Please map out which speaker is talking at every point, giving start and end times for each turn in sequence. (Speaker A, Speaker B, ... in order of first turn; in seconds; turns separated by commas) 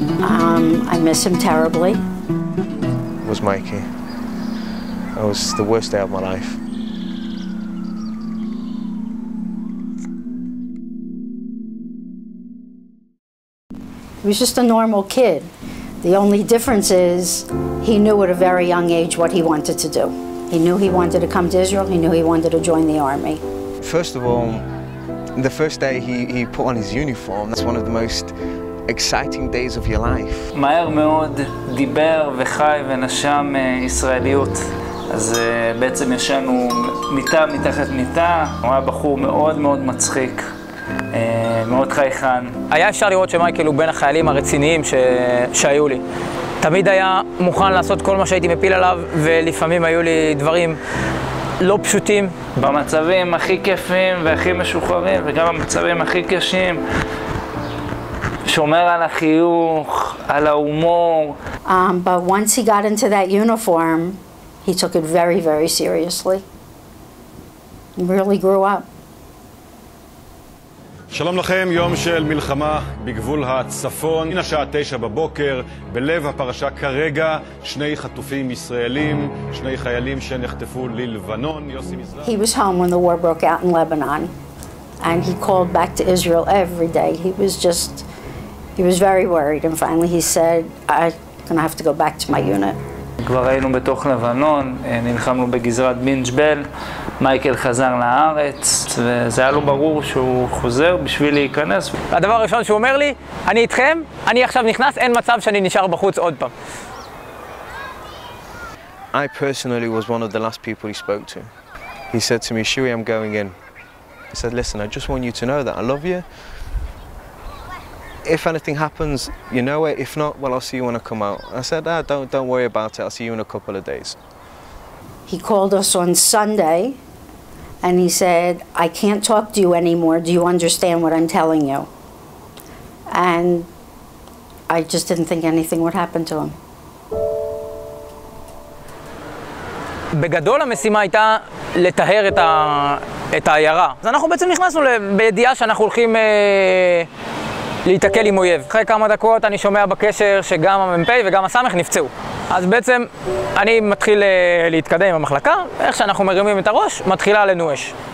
Speaker A: 0.2-2.0, Speaker B: 3.2-3.9, Speaker B: 5.2-6.6, Speaker A: 14.2-15.5, Speaker A: 16.0-23.4, Speaker B: 23.8-24.7, Speaker B: 25.4-28.4, Speaker B: 28.9-30.5, Speaker C: 30.5-40.5, Speaker C: 41.1-42.6, Speaker D: 42.7-46.0, Speaker D: 46.6-50.8, Speaker D: 51.6-52.3, Speaker C: 52.6-56.8, Speaker C: 58.5-61.4, Speaker A: 61.7-66.4, Speaker A: 68.0-68.8, Speaker E: 71.1-82.3, Speaker A: 82.2-84.3, Speaker A: 85.0-88.1, Speaker A: 88.8-92.8, Speaker C: 93.2-96.7, Speaker C: 97.2-102.0, Speaker D: 102.1-106.5, Speaker B: 109.1-111.5, Speaker B: 112.1-113.6, Speaker B: 114.3-116.2, Speaker B: 118.2-124.2, Speaker A: 125.3-127.0, Speaker A: 127.8-131.9, Speaker A: 133.1-133.7, Speaker A: 134.7-136.6, Speaker D: 140.2-147.1, Speaker D: 147.9-157.9